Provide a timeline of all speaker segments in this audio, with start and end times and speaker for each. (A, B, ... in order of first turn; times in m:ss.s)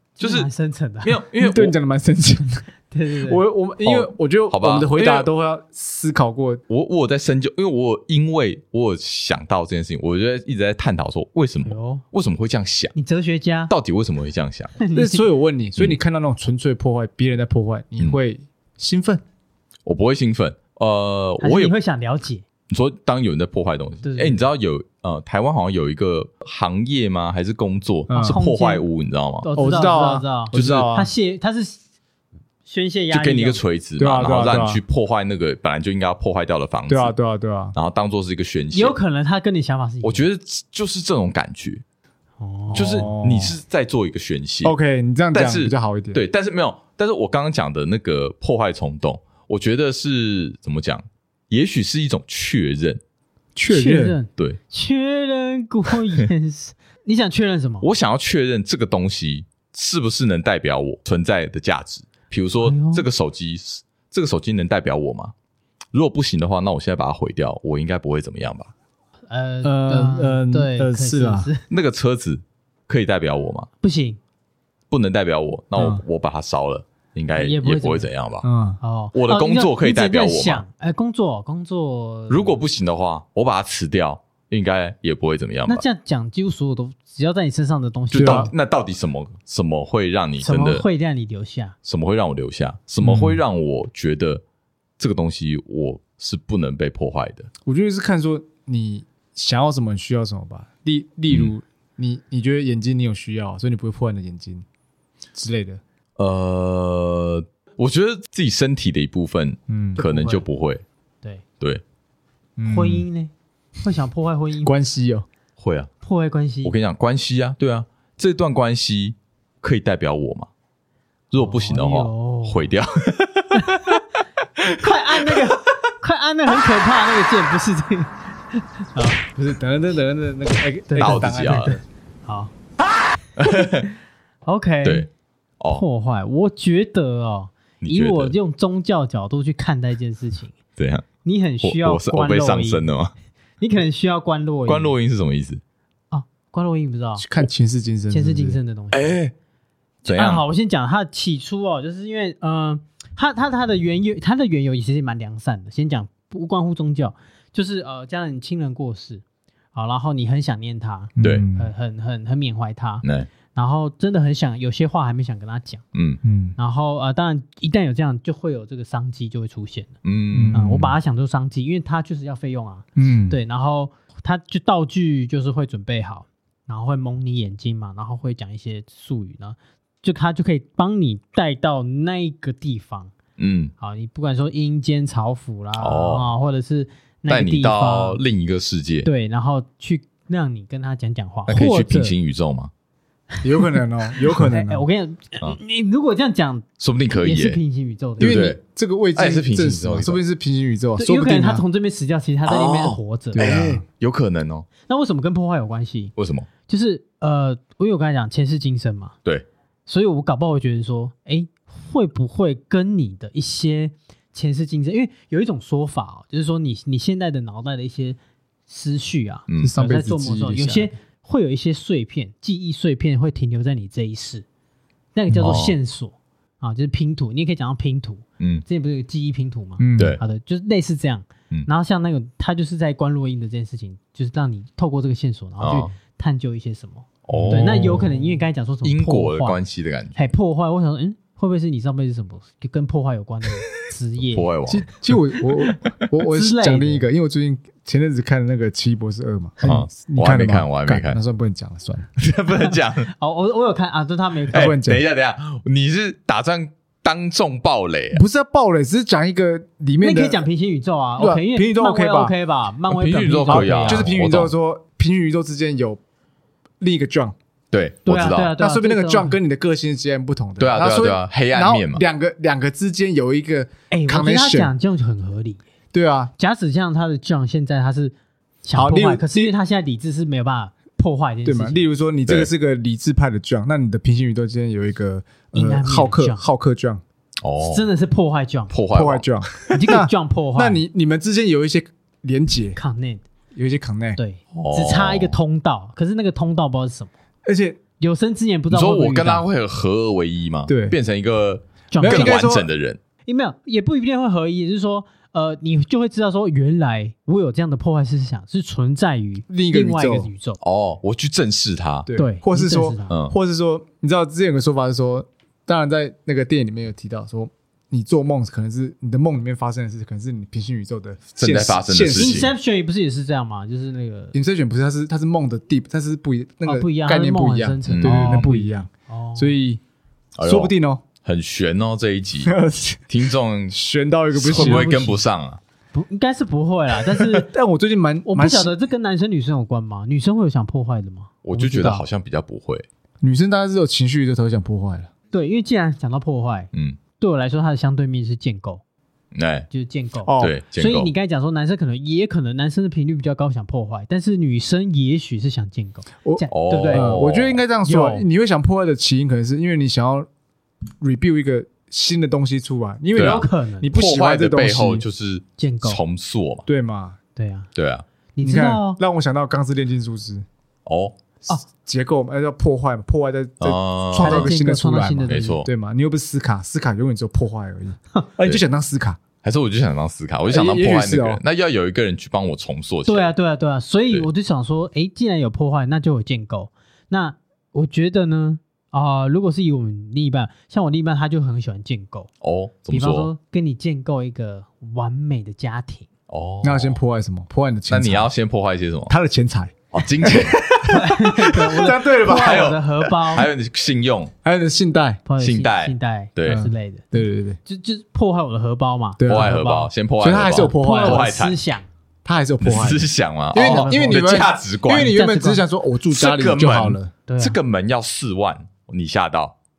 0:00.2-0:01.2 A
0:00.2-0:00.5 B
0:01.0-0:01.8 B
0:01.4-0:02.6 C
0:02.9-0:03.4 A
0:03.2-0:06.6 C
0:03.8-0:05.3 B
0:06.7-0:12.9 B
0:11.6-0:12.0 A
0:13.0-0:13.7 A
0:13.7-0:14.8 B
0:14.8-0:15.3 A
0:14.9-0:19.2 C
0:19.8-0:21.7 B
0:21.4-0:22.4 A
0:22.7-0:29.5 B
0:24.0-0:24.5 A
0:28.1-0:28.4 C
0:28.2-0:28.8 A
0:29.4-0:31.8 A
0:29.6-0:31.1 C
0:30.5-0:30.9 B
0:32.7-0:33.6 A
0:33.1-0:37.1 B
0:34.0-0:34.8 C
0:36.9-0:37.8 C
0:37.8-0:39.0 B
0:38.7-0:40.2 A
0:40.0-0:41.8 B
0:42.4-0:43.1 A
0:42.7-0:43.6 C
0:42.7-0:44.7 B
0:44.6-0:46.2 C
0:45.3-0:53.0 B
0:53.6-0:54.2 C
0:53.7-0:57.9 A
0:57.8-1:05.3 B
1:02.6-1:03.1 A
1:05.9-1:08.7 B
1:09.3-1:11.6 A
1:09.6-1:11.5 C
1:11.7-1:13.7 B
1:13.8-1:14.2 A
1:14.9-1:18.5 B
1:15.8-1:16.0 C
1:17.4-1:18.1 A
1:18.4-1:18.8 C
1:18.8-1:22.6 A
1:19.1-1:20.6 B
1:22.3-1:25.8 B
1:25.7-1:28.5 A
1:28.1-1:30.8 B
1:28.2-1:28.5 C
1:30.4-1:31.8 A
1:31.8-1:34.4 B
1:33.0-1:33.4 C
1:35.0-1:37.5 B
1:37.7-1:44.6 C
1:45.3-1:45.8 C
1:46.2-1:50.8 B
1:49.7-1:50.0 C
1:50.0-1:50.4 A
1:52.6-1:53.1 C
1:52.6-1:54.7 A
1:54.6-1:55.3 C
1:55.6-1:55.9 B
1:56.0-1:56.8 A
1:56.6-2:00.5 B
2:01.3-2:04.0 B
2:01.4-2:02.7 A
2:03.5-2:03.9 A
2:04.6-2:05.5 B
2:04.8-2:09.2 A
2:09.4-2:11.8 C
2:10.9-2:12.5 A
2:11.0-2:11.8 B
2:13.4-2:13.9 B
2:14.4-2:15.1 A
2:14.8-2:15.1 B
2:15.6-2:15.8 B
2:15.7-2:20.5 A
2:17.8-2:18.4 B
2:20.8-2:21.1 B
2:21.2-2:22.8 A
2:21.6-2:23.1 B
2:23.6-2:24.9 A
2:24.7-2:25.6 B
2:26.1-2:27.3 A
2:27.2-2:28.6 C
2:28.1-2:29.2 A
2:28.9-2:29.3 B
2:30.0-2:39.2 A
2:30.1-2:30.4 B
2:39.7-2:45.8 A
2:41.2-2:41.7 C
2:43.0-2:43.3 B
2:46.0-2:46.2 B
2:46.2-2:46.6 C
2:46.6-2:49.9 A
2:50.0-2:50.6 B
2:50.3-2:51.0 C
2:50.5-3:03.1 A
2:53.0-2:53.4 C
3:03.4-3:03.7 B
3:03.8-3:08.2 A
3:05.8-3:06.3 B
3:07.3-3:09.1 B
3:09.0-3:12.2 A
3:11.5-3:12.7 B
3:13.4-3:14.8 C
3:14.4-3:18.5 A
3:16.8-3:17.6 B
3:18.2-3:18.6 B
3:18.2-3:21.6 C
3:19.2-3:20.2 B
3:21.0-3:23.6 A
3:22.4-3:24.7 B
3:23.3-3:23.8 C
3:24.9-3:26.1 A
3:26.2-3:26.5 B
3:26.7-3:29.1 A
3:29.9-3:44.4 A
3:39.5-3:39.8 B
3:39.6-3:40.9 C
3:45.2-3:59.6 A
3:45.3-3:45.6 C
3:45.4-3:45.8 B
3:49.8-3:50.2 C
3:55.6-3:55.9 B
3:57.3-3:58.1 B
3:57.3-3:58.2 C
3:58.8-4:00.3 B
4:00.2-4:04.5 A
4:04.3-4:05.9 B
4:04.7-4:12.1 C
4:06.2-4:07.1 A
4:09.6-4:11.2 B
4:12.2-4:13.1 B
4:12.6-4:14.7 A
4:14.5-4:15.0 C
4:14.5-4:18.2 B
4:18.1-4:20.4 C
4:20.0-4:24.1 A
4:21.2-4:22.3 C
4:22.9-4:24.5 B
4:23.5-4:26.0 C
4:26.8-4:27.4 C
4:27.7-4:28.5 B
4:28.0-4:29.4 A
4:28.6-4:34.7 C
4:30.6-4:32.0 B
4:33.9-4:35.6 A
4:35.9-4:36.3 C
4:36.4-4:41.8 A
4:38.7-4:39.5 C
4:41.4-4:47.0 C
4:45.5-4:46.4 A
4:47.4-4:47.9 B
4:47.6-4:48.7 A
4:48.7-4:49.7 B
4:48.9-4:52.8 C
4:49.7-4:50.8 A
4:52.8-4:53.2 A
4:53.5-4:54.2 C
4:54.2-4:57.1 A
4:54.5-4:55.4 B
4:57.4-4:57.8 C
4:58.0-4:59.5 A
4:58.7-5:03.0 B
5:00.7-5:01.0 C
5:01.9-5:02.4 A
5:02.0-5:02.7 C
5:03.3-5:10.6 A
5:09.5-5:10.3 C
5:10.6-5:12.1 B
5:12.1-5:22.5 C
5:12.2-5:13.1 A
5:13.1-5:13.4 B
5:21.4-5:22.5 B
5:22.1-5:24.4 A
5:24.3-5:29.8 C
5:26.6-5:29.5 A
5:27.9-5:28.5 B
5:30.4-5:32.5 B
5:30.4-5:31.0 C
5:32.4-5:33.1 C
5:33.1-5:33.8 B
5:33.7-5:34.9 C
5:34.3-5:35.6 B
5:34.5-5:35.2 A
5:35.9-5:37.5 A
5:37.5-5:38.7 C
5:38.3-5:42.0 A
5:41.4-5:42.9 B
5:43.2-5:45.1 C
5:45.3-5:48.8 A
5:46.7-5:47.0 B
5:49.3-5:49.7 B
5:49.7-5:57.2 A
5:50.2-5:50.6 C
5:50.4-5:51.1 B
5:56.2-6:00.3 C
5:56.5-5:57.6 B
5:57.8-5:58.2 A
6:01.0-6:05.0 C
6:03.2-6:03.9 A
6:03.2-6:06.7 B
6:05.6-6:06.0 A
6:06.7-6:07.2 C
6:07.4-6:07.7 A
6:07.8-6:08.0 B
6:08.4-6:09.0 A
6:08.4-6:10.5 C
6:10.9-6:11.2 B
6:11.6-6:19.2 C
6:13.6-6:14.5 B
6:14.2-6:15.6 A
6:15.3-6:15.7 B
6:19.4-6:23.3 B
6:20.5-6:21.4 C
6:23.1-6:32.3 A
6:32.4-6:33.3 B
6:32.9-6:36.1 A
6:36.3-6:37.0 B
6:36.6-6:38.3 C
6:37.9-6:39.2 B
6:39.1-6:42.8 C
6:39.9-6:40.7 B
6:40.9-6:43.5 A
6:41.9-6:44.3 B
6:44.4-6:45.2 C
6:45.3-6:47.1 A
6:45.4-6:46.6 B
6:46.5-6:47.6 C
6:47.6-6:49.9 A
6:49.2-6:49.6 C
6:49.3-6:51.6 B
6:50.2-6:51.3 C
6:50.4-6:51.9 A
6:52.2-6:57.1 C
6:52.6-6:55.2 B
6:53.5-6:55.6 A
6:56.1-6:59.6 B
6:57.3-6:57.6 A